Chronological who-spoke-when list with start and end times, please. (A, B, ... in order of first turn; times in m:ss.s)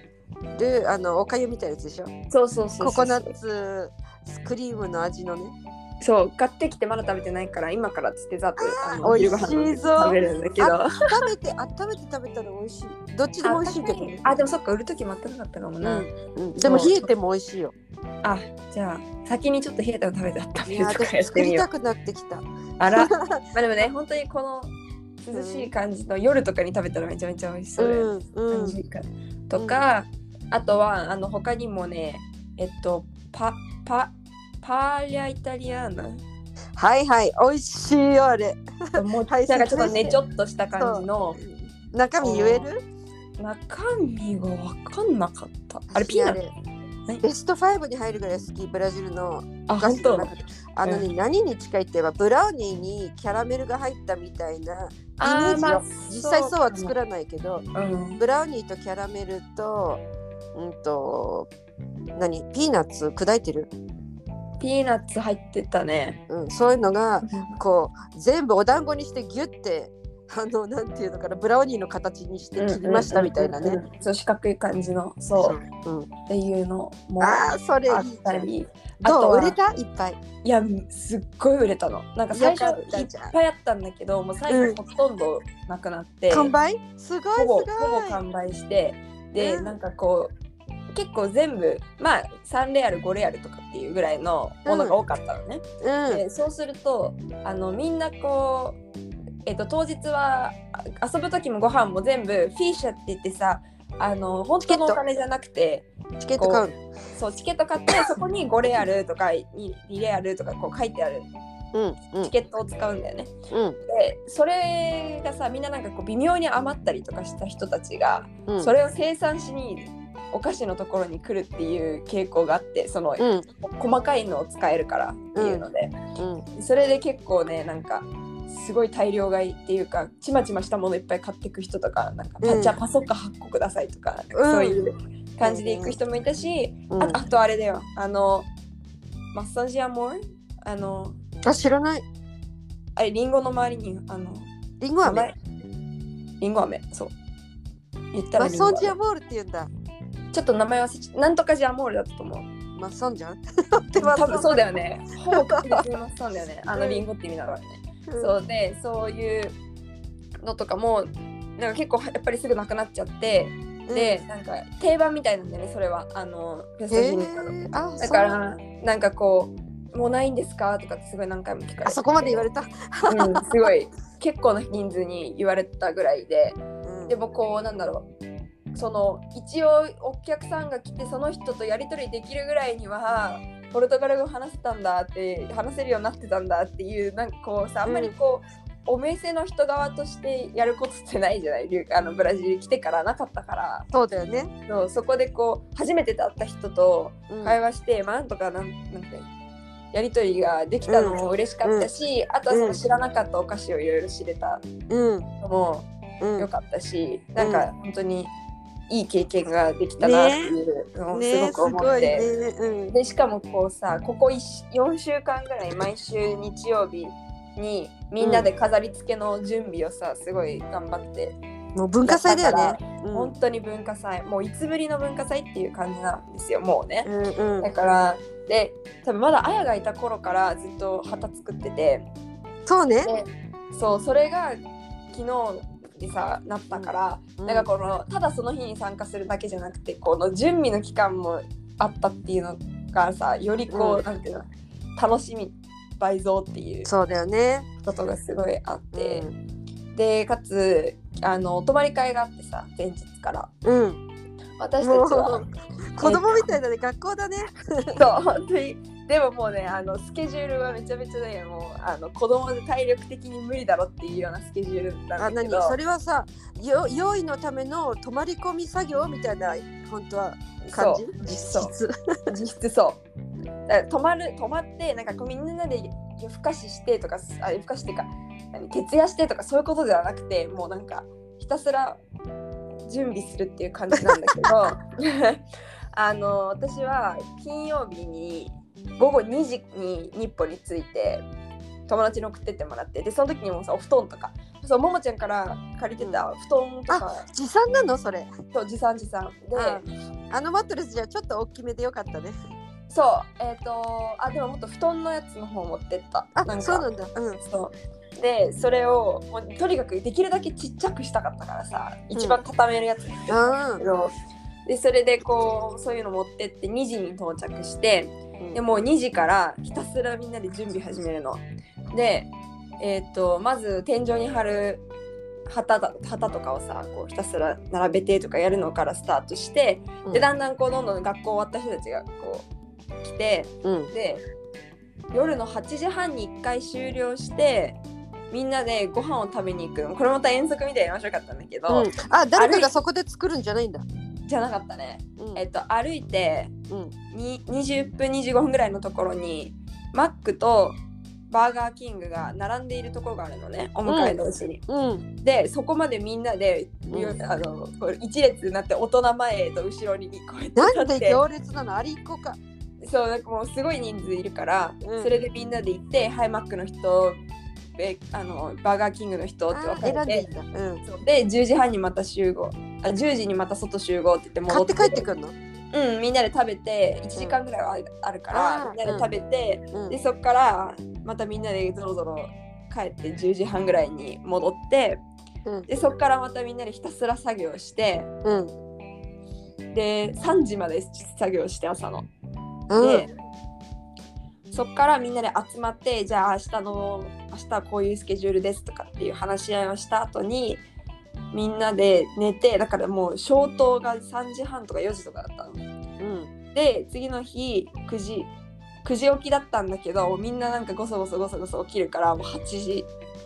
0:00.6-0:02.1 A
0:02.3-0:03.4 B
0:02.8-0:05.5 A
0:06.0-0:11.0 B
0:08.6-0:14.4 A
0:13.4-0:16.1 B
0:15.8-0:17.7 A
0:16.6-0:17.1 B
0:18.2-0:21.7 B
0:20.7-0:23.4 A
0:22.8-0:24.7 B
0:25.2-0:36.2 B
0:25.3-0:25.7 A
0:27.8-0:28.8 A
0:29.6-0:29.8 A
0:36.8-0:40.2 A
0:39.0-0:41.4 B
0:40.8-0:42.8 A
0:42.2-0:42.7 B
0:43.4-0:46.4 B
0:45.9-0:46.5 A
0:47.2-0:57.6 A
0:49.7-0:50.3 B
0:50.8-0:51.1 B
0:55.2-0:56.9 B
0:57.8-0:58.2 B
0:58.2-1:00.0 A
1:00.6-1:01.5 A
1:02.2-1:03.7 A
1:04.6-1:06.2 B
1:06.3-1:13.8 A
1:07.2-1:07.6 B
1:12.6-1:15.6 B
1:15.4-1:16.1 A
1:16.3-1:19.6 B
1:17.2-1:18.5 A
1:19.0-1:20.2 A
1:20.4-1:26.5 B
1:22.3-1:23.3 A
1:24.5-1:24.8 A
1:26.3-1:28.2 A
1:27.4-1:30.3 B
1:29.4-1:29.8 A
1:30.9-1:38.8 B
1:34.7-1:35.0 A
1:35.8-1:36.2 A
1:39.5-1:51.3 B
1:44.7-1:45.0 A
1:46.2-1:46.8 A
1:51.7-1:52.3 A
1:52.2-1:53.3 B
1:53.5-1:53.8 A
1:53.8-2:05.9 B
1:58.5-1:58.7 A
2:03.2-2:03.4 A
2:05.4-2:05.7 A
2:06.2-2:06.4 A
2:06.6-2:18.5 B
2:12.4-2:12.8 A
2:14.3-2:14.8 A
2:15.4-2:16.0 A
2:16.9-2:17.2 A
2:19.3-2:21.2 B
2:21.4-2:22.0 A
2:23.0-2:24.5 B
2:24.8-2:25.3 A
2:25.0-2:25.4 B
2:26.4-2:27.1 B
2:28.1-2:29.0 B
2:28.4-2:29.7 A
2:30.3-2:32.5 B
2:32.8-2:34.6 A
2:34.0-2:39.6 B
2:35.3-2:35.8 A
2:36.8-2:37.0 A
2:38.1-2:38.3 A
2:40.4-2:52.4 B
2:43.9-2:44.2 A
2:46.9-2:48.4 A
2:51.9-2:53.5 A
2:53.1-2:58.1 B
2:56.8-2:57.2 A
2:58.8-3:13.9 B
3:07.9-3:08.1 A
3:13.9-3:14.5 A
3:14.7-3:19.3 B
3:17.3-3:17.6 A
3:19.9-3:24.6 B
3:20.9-3:21.9 A
3:22.5-3:22.8 A
3:24.9-3:25.3 A
3:25.4-3:28.3 B
3:26.2-3:26.5 A
3:27.4-3:27.6 A
3:28.9-3:32.3 B
3:30.0-3:30.6 A
3:31.1-3:33.0 A
3:32.9-3:41.4 B
3:38.2-3:38.5 A
3:41.8-3:43.3 A
3:42.0-3:47.1 B
3:47.0-3:47.7 A
3:47.6-3:52.1 B
3:52.7-3:53.1 A
3:53.0-3:54.6 B
3:55.1-4:06.9 B
3:56.7-3:57.7 A
4:03.7-4:04.0 A
4:06.8-4:07.7 A
4:07.8-4:09.3 B
4:08.9-4:09.4 A
4:10.0-4:13.5 B
4:13.6-4:14.0 A
4:14.6-4:16.6 B
4:14.8-4:18.0 A
4:18.0-4:25.8 B
4:25.2-4:32.3 A
4:30.6-4:31.7 B
4:32.3-4:33.0 B
4:33.7-4:42.0 B
4:42.9-4:45.4 B
4:44.1-4:44.5 A
4:45.9-4:51.2 B
4:51.9-4:57.3 B
4:56.9-4:58.3 A
4:58.5-4:59.8 B
4:59.6-5:02.4 A
5:02.9-5:06.9 B
5:06.4-5:07.4 A
5:07.4-5:14.1 B
5:13.3-5:13.8 A
5:14.7-5:24.8 B
5:25.5-5:32.5 B
5:33.0-5:34.2 B
5:33.6-5:33.9 A
5:35.1-5:37.8 B
5:38.3-5:42.7 B
5:41.7-5:43.8 A
5:44.3-5:46.5 B
5:45.2-5:45.4 A
5:47.1-5:54.6 B
5:53.9-5:55.0 A
5:55.2-6:01.2 B
5:56.9-5:57.2 A
6:00.6-6:02.4 A
6:02.8-6:07.2 B
6:04.8-6:05.1 A
6:07.8-6:10.3 B
6:09.5-6:10.8 A
6:10.8-6:15.1 B
6:14.5-6:15.4 A
6:15.7-6:25.0 B
6:18.3-6:19.1 A
6:25.7-6:28.1 B
6:28.2-6:28.5 A
6:29.7-6:32.1 B
6:32.7-6:33.1 A
6:32.8-6:33.1 B
6:34.5-6:40.6 B
6:41.3-6:45.6 B
6:46.0-6:46.3 A
6:46.5-6:48.3 B
6:48.8-6:52.9 B